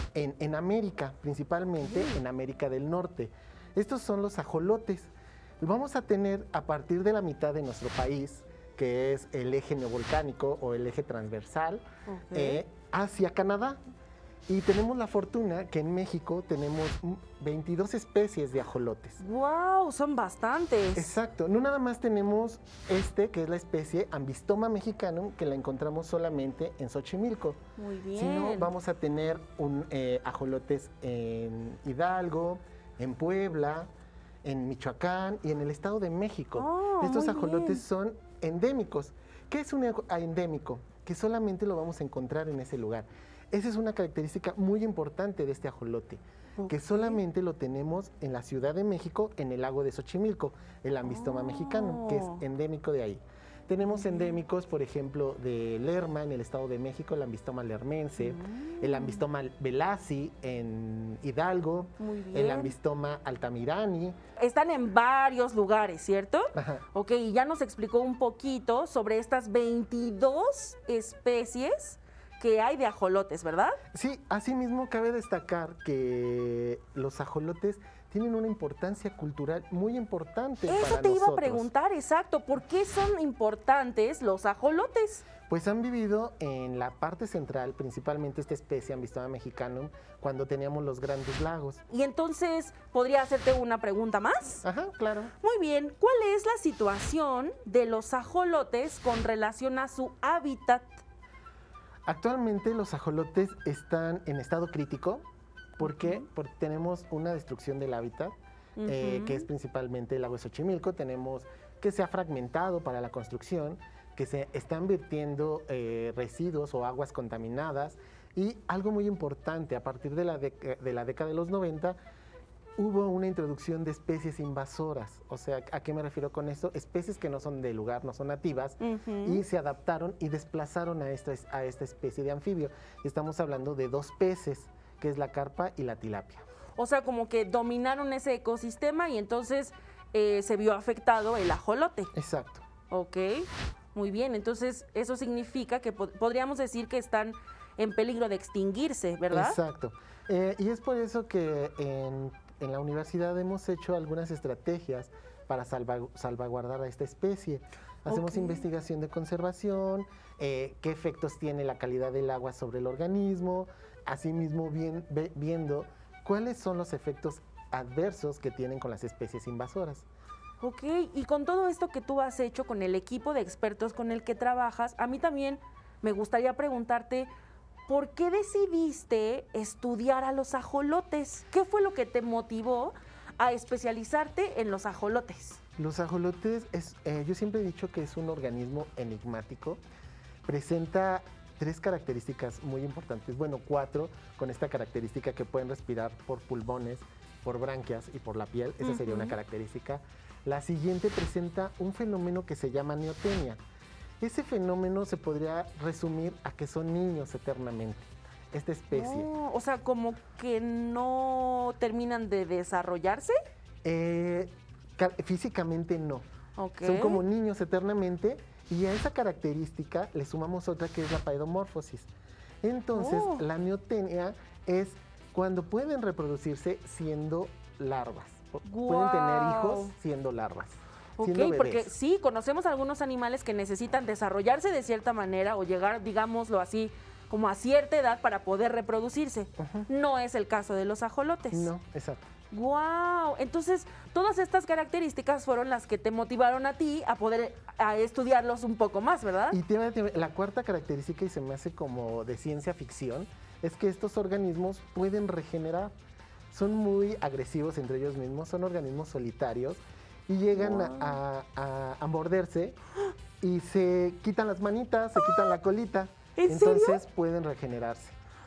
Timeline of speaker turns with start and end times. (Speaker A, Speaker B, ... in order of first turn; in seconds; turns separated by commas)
Speaker A: 0.1-13.8, Speaker B: 1.9-2.1, Speaker B: 12.1-12.6, Speaker A: 14.5-19.2, Speaker B: 19.2-21.1, Speaker A: 20.9-27.6, Speaker B: 27.8-28.7, Speaker A: 28.1-33.9, Speaker A: 34.4-64.2, Speaker B: 36.6-37.8, Speaker B: 46.6-47.2, Speaker B: 51.0-52.4, Speaker B: 53.8-54.4, Speaker B: 58.2-59.2, Speaker B: 62.0-62.7, Speaker B: 64.4-73.8, Speaker A: 66.5-66.8, Speaker A: 73.9-81.7, Speaker B: 80.7-85.3, Speaker A: 85.5-91.8, Speaker B: 91.9-94.6, Speaker A: 94.6-95.3, Speaker B: 95.4-101.0, Speaker A: 102.1-105.2, Speaker A: 105.8-122.0, Speaker B: 105.8-106.2, Speaker B: 108.8-109.5, Speaker A: 122.8-136.4, Speaker B: 128.8-129.4, Speaker B: 136.8-142.1, Speaker A: 142.1-142.6, Speaker B: 142.9-149.6, Speaker A: 149.3-170.1, Speaker B: 158.1-158.6, Speaker B: 170.6-177.3, Speaker B: 177.9-185.6, Speaker A: 185.8-189.8, Speaker A: 190.4-203.6, Speaker B: 198.8-199.4, Speaker A: 204.2-209.3, Speaker B: 208.9-213.3, Speaker A: 213.8-216.3, Speaker B: 216.6-217.2, Speaker A: 216.8-222.1, Speaker A: 222.6-231.9, Speaker B: 222.9-223.4, Speaker B: 228.6-229.9, Speaker B: 231.2-241.7, Speaker A: 239.6-239.9, Speaker A: 241.5-242.2, Speaker B: 242.5-249.6, Speaker A: 249.5-255.9, Speaker A: 256.5-262.8, Speaker B: 260.6-261.2, Speaker A: 263.4-268.1, Speaker B: 265.2-265.5, Speaker B: 266.4-267.0